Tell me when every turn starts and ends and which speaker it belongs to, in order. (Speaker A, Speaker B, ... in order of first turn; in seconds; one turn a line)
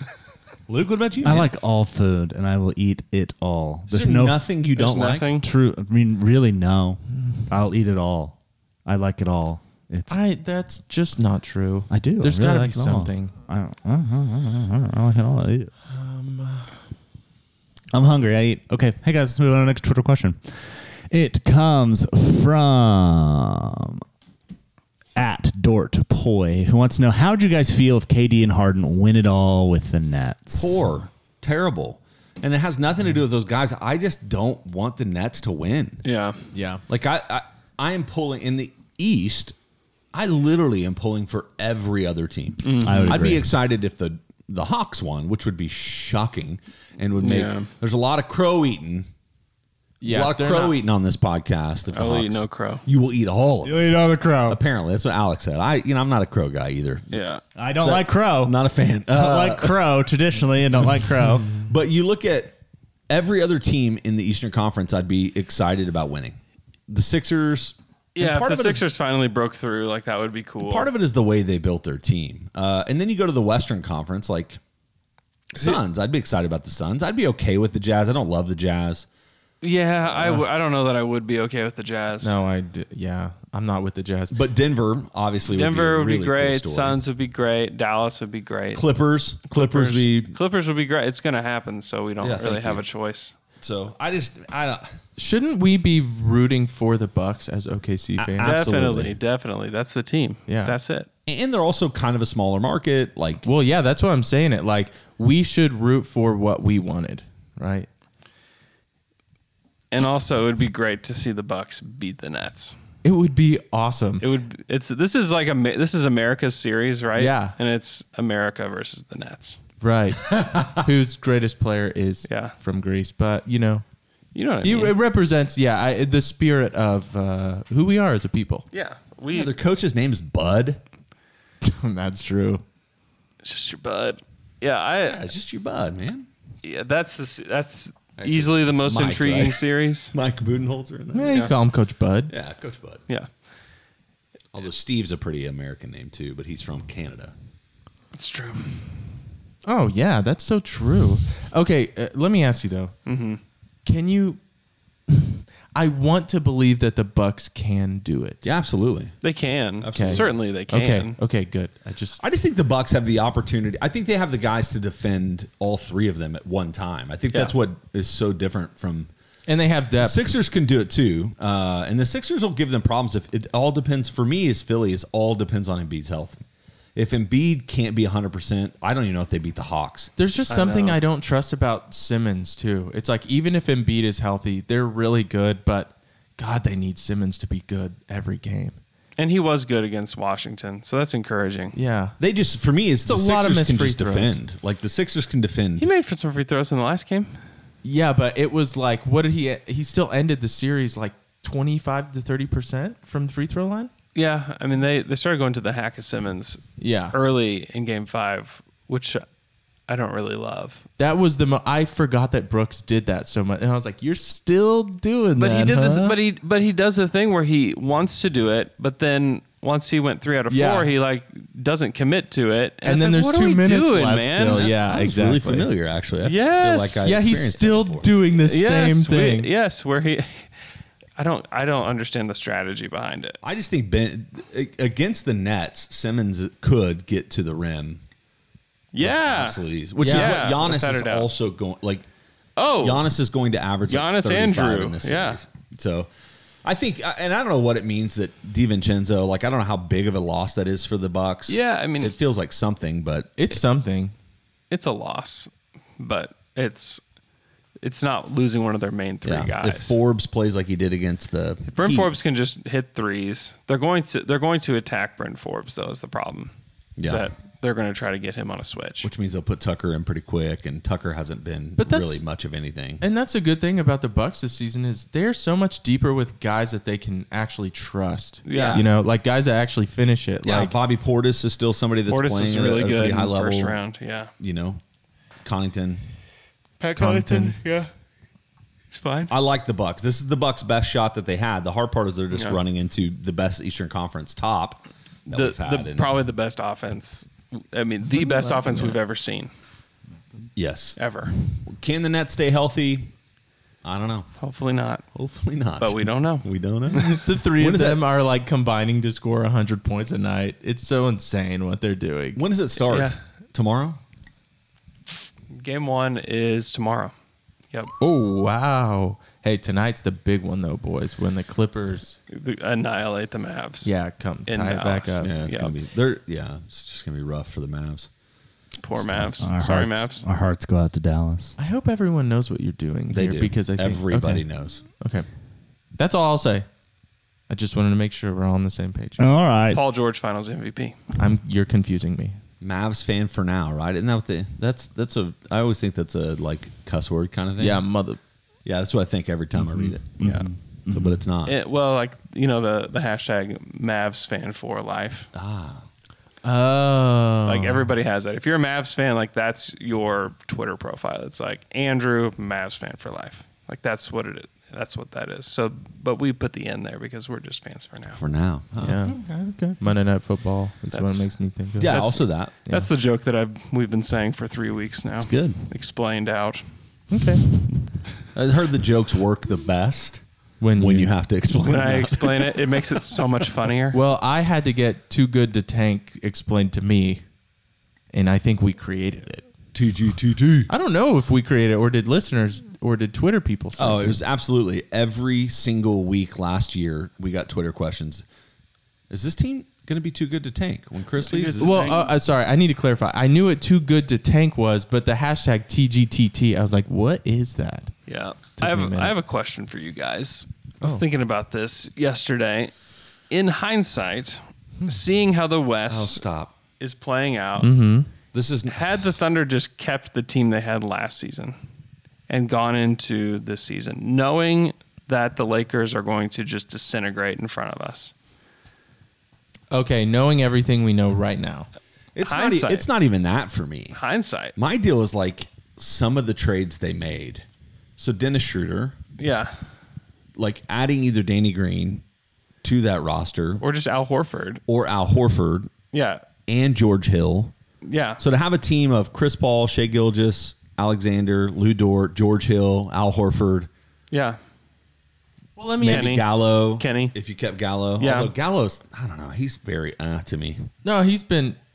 Speaker A: 0.7-1.5
Speaker B: 1.2-4.5
Speaker A: 3.9-5.3
Speaker C: 4.8-5.4
Speaker B: 5.4-10.2
Speaker D: 7.2-7.4
Speaker D: 10.1-13.3
Speaker B: 11.9-15.7
Speaker D: 15.9-16.8
Speaker B: 17.9-24.0
Speaker B: 25.1-30.8
Speaker A: 30.6-36.0
Speaker C: 36.0-36.4
Speaker D: 36.5-36.8
Speaker A: 36.9-39.5
Speaker A: 40.1-49.1
Speaker C: 42.6-43.1
Speaker B: 42.8-43.5
Speaker C: 47.2-47.7
Speaker D: 50.0-50.8
Speaker A: 50.0-53.8
Speaker C: 51.9-52.8
Speaker B: 53.6-54.6
Speaker A: 54.5-57.2
Speaker C: 57.1-57.4
Speaker B: 57.6-58.5
Speaker A: 57.8-60.0
Speaker B: 59.1-61.6
Speaker A: 61.6-68.8
Speaker C: 68.2-70.9
Speaker A: 70.6-74.6
Speaker A: 75.5-79.1
Speaker C: 79.6-82.3
Speaker D: 82.2-84.4
Speaker A: 84.3-87.0
Speaker C: 85.5-88.9
Speaker A: 88.7-90.3
Speaker C: 89.5-93.3
Speaker A: 92.2-92.8
Speaker A: 93.6-95.0
Speaker D: 95.2-99.0
Speaker A: 98.2-99.1
Speaker C: 98.4-101.1
Speaker D: 100.5-100.7
Speaker A: 101.3-103.4
Speaker D: 103.4-107.9
Speaker C: 109.9-112.8
Speaker D: 113.0-114.2
Speaker C: 114.2-119.6
Speaker D: 117.2-117.5
Speaker D: 119.8-123.8
Speaker C: 122.2-122.5
Speaker C: 124.3-125.0
Speaker D: 124.6-128.6
Speaker C: 128.7-129.5
Speaker A: 129.3-130.8
Speaker D: 131.6-132.6
Speaker C: 133.4-135.2
Speaker A: 135.0-136.3
Speaker C: 136.6-140.1
Speaker A: 138.2-141.5
Speaker D: 141.1-142.3
Speaker A: 142.3-143.0
Speaker A: 144.5-147.3
Speaker C: 148.1-148.9
Speaker D: 149.6-152.9
Speaker C: 153.1-153.4
Speaker D: 153.8-154.4
Speaker D: 155.1-158.4
Speaker A: 158.4-159.2
Speaker C: 159.2-161.2
Speaker A: 159.8-160.4
Speaker D: 159.9-162.2
Speaker A: 162.2-169.1
Speaker D: 169.5-170.2
Speaker A: 170.0-176.4
Speaker A: 176.9-180.1
Speaker D: 180.2-188.8
Speaker C: 180.5-181.0
Speaker C: 189.2-191.8
Speaker D: 191.7-192.2
Speaker A: 192.2-195.9
Speaker D: 193.0-194.4
Speaker C: 195.8-197.4
Speaker D: 197.8-203.9
Speaker C: 204.1-209.2
Speaker D: 206.8-207.2
Speaker C: 209.9-210.8
Speaker D: 211.0-216.2
Speaker C: 215.4-224.7
Speaker D: 220.5-220.9
Speaker D: 222.8-225.7
Speaker A: 224.5-228.1
Speaker C: 226.2-227.0
Speaker D: 227.0-229.5
Speaker C: 228.4-230.5
Speaker C: 231.2-233.4
Speaker A: 233.4-238.0
Speaker C: 238.9-241.3
Speaker A: 239.0-242.1
Speaker D: 240.0-240.4
Speaker C: 242.6-243.0
Speaker A: 242.8-246.1
Speaker C: 243.9-245.4
Speaker A: 246.6-253.3
Speaker C: 251.5-252.2
Speaker D: 253.4-254.1
Speaker C: 254.7-257.0
Speaker C: 257.8-260.0
Speaker A: 259.2-262.1
Speaker C: 261.7-269.1
Speaker A: 267.0-267.3
Speaker A: 269.0-273.0
Speaker D: 271.8-272.2
Speaker D: 273.0-280.7
Speaker C: 278.4-278.8
Speaker A: 278.5-278.9
Speaker A: 280.4-283.8
Speaker C: 282.1-284.3
Speaker A: 284.4-284.8
Speaker A: 285.4-286.0
Speaker C: 286.8-287.9
Speaker D: 287.0-287.5
Speaker C: 288.9-289.3
Speaker A: 289.3-296.2
Speaker C: 292.3-292.6
Speaker C: 295.3-299.5
Speaker D: 298.1-298.9
Speaker A: 300.6-301.0
Speaker C: 300.9-301.3
Speaker A: 301.6-303.1
Speaker A: 303.8-304.3
Speaker C: 304.4-305.0
Speaker A: 305.1-308.0
Speaker C: 305.8-307.2
Speaker D: 306.9-312.4
Speaker A: 312.4-314.0
Speaker C: 312.8-313.2
Speaker C: 315.5-317.1
Speaker D: 318.0-322.2
Speaker C: 322.3-323.9
Speaker D: 323.8-325.3
Speaker C: 324.5-325.8
Speaker A: 325.2-328.1
Speaker C: 328.8-330.2
Speaker A: 329.0-329.2
Speaker B: 329.4-331.6
Speaker D: 331.6-334.5
Speaker A: 333.1-334.8
Speaker D: 335.0-335.3
Speaker D: 336.0-336.6
Speaker D: 337.5-339.2
Speaker B: 339.2-339.8
Speaker C: 339.7-341.0
Speaker D: 341.2-342.4
Speaker A: 342.6-347.8
Speaker D: 347.6-348.2
Speaker A: 348.6-350.2
Speaker B: 349.6-351.2
Speaker A: 350.9-351.6
Speaker C: 351.4-355.3
Speaker A: 355.3-355.9
Speaker D: 356.4-357.9
Speaker C: 357.4-368.2
Speaker A: 368.1-369.1
Speaker D: 368.8-372.0
Speaker C: 370.9-371.3
Speaker A: 371.8-372.5
Speaker C: 371.9-376.7
Speaker D: 372.6-372.9
Speaker A: 375.2-375.6
Speaker D: 377.1-377.5
Speaker A: 378.3-380.2
Speaker D: 380.6-381.1
Speaker A: 380.7-383.0
Speaker C: 381.6-384.0
Speaker D: 383.9-387.2
Speaker D: 388.1-389.4
Speaker A: 389.7-390.7
Speaker D: 390.7-394.2
Speaker A: 393.8-398.2
Speaker A: 399.1-402.0
Speaker C: 401.2-402.1
Speaker D: 401.6-407.9
Speaker C: 408.1-412.7
Speaker D: 408.6-409.1
Speaker C: 413.3-416.2
Speaker A: 415.9-416.6
Speaker C: 416.8-417.7
Speaker D: 417.6-418.1
Speaker A: 418.3-418.8
Speaker C: 418.7-421.6
Speaker C: 422.3-428.1
Speaker D: 429.7-431.7
Speaker A: 432.1-434.0
Speaker C: 432.2-432.9
Speaker C: 433.9-434.5
Speaker A: 434.6-437.4
Speaker A: 438.0-438.9
Speaker C: 439.2-439.6
Speaker A: 440.4-442.0
Speaker A: 442.6-443.6
Speaker C: 443.6-444.6
Speaker A: 444.7-445.7
Speaker C: 445.9-446.2
Speaker A: 446.5-447.5
Speaker C: 447.8-448.2
Speaker A: 448.2-453.7
Speaker C: 454.1-454.4
Speaker D: 455.6-456.2
Speaker A: 455.8-460.7
Speaker C: 455.9-457.1
Speaker C: 458.0-458.3
Speaker D: 460.8-461.6